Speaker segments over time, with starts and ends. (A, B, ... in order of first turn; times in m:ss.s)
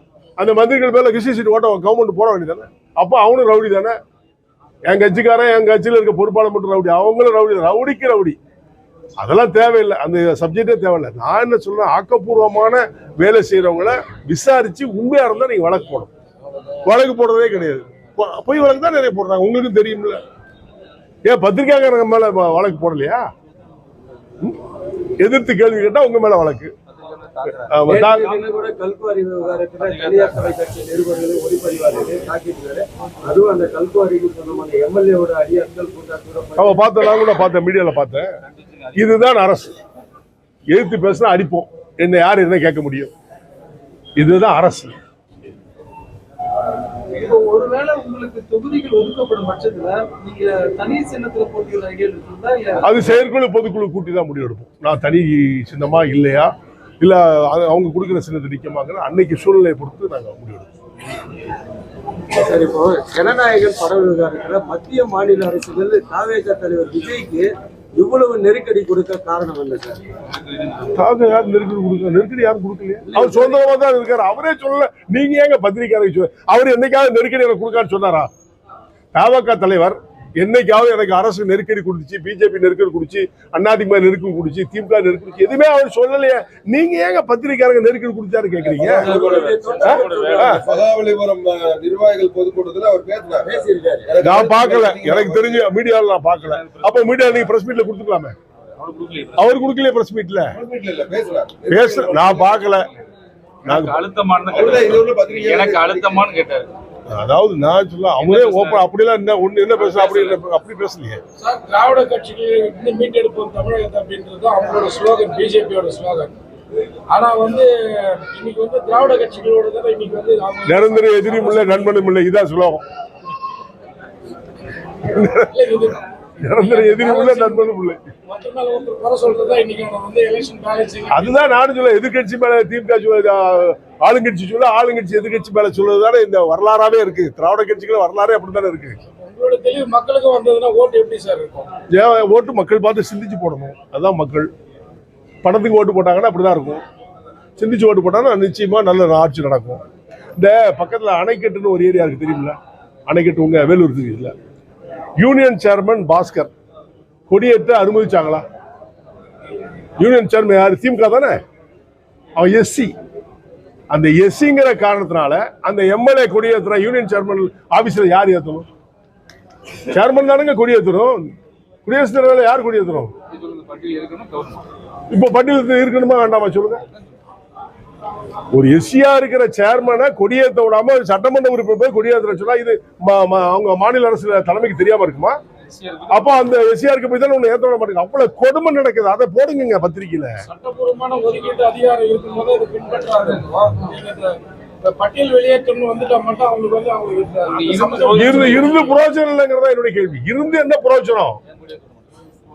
0:00.4-0:03.9 A
0:04.9-0:08.4 A
0:09.2-0:16.1 A
0:16.8-0:20.2 A
0:21.2-0:23.2 A
0:25.2-0:26.7 A
0:26.9-0:28.4 B
0:27.6-0:28.3 A
0:27.9-0:36.8 C
0:29.7-0:30.5 B
0:36.6-0:38.3 A
0:38.5-0:39.1 B
0:38.9-0:39.8 A
0:40.7-0:43.1 A
0:44.2-0:45.0 A
0:47.1-0:53.0 D
0:52.8-0:56.5 A
0:57.0-1:00.7 A
1:02.3-1:10.0 C
1:10.6-1:10.9 B
1:10.9-1:18.3 A
1:13.1-1:13.6 C
1:19.1-1:29.1 A
1:28.8-1:30.8 C
1:28.8-1:29.4 E
1:28.9-1:30.5 B
1:29.8-1:30.6 A
1:30.4-1:33.5 E
1:33.4-1:34.2 C
1:34.0-1:35.7 E
1:34.2-1:38.4 A
1:36.4-1:37.4 B
1:38.8-1:39.8 B
1:39.4-1:40.5 A
1:40.5-1:42.6 E
1:41.7-1:42.9 A
1:43.6-1:44.0 A
1:43.6-1:46.7 B
1:44.5-1:46.3 E
1:47.1-1:51.2 A
1:48.2-1:48.8 B
1:49.9-1:50.3 B
1:51.4-1:56.3 F
1:57.1-2:01.9 F
2:00.6-2:02.8 A
2:05.0-2:05.5 A
2:05.5-2:06.0 F
2:06.4-2:08.0 A
2:06.5-2:07.7 F
2:08.3-2:11.4 F
2:11.1-2:19.0 A
2:19.2-2:21.7 F
2:21.9-2:24.5 A
2:25.4-2:26.8 A
2:27.6-2:29.8 A
2:30.4-2:34.3 A
2:35.2-2:36.5 A
2:37.3-2:38.4 A
2:40.0-2:41.4 A
2:42.4-2:42.9 A
2:43.9-2:48.7 A
2:49.9-2:51.3 A
2:51.8-2:53.1 A
2:53.3-2:54.6 B
2:55.1-2:56.8 A
2:58.5-3:05.4 A
3:05.6-3:06.3 B
3:06.1-3:10.3 A
3:10.5-3:18.7 F
3:17.5-3:19.0 B
3:18.1-3:21.4 A
3:21.5-3:22.0 B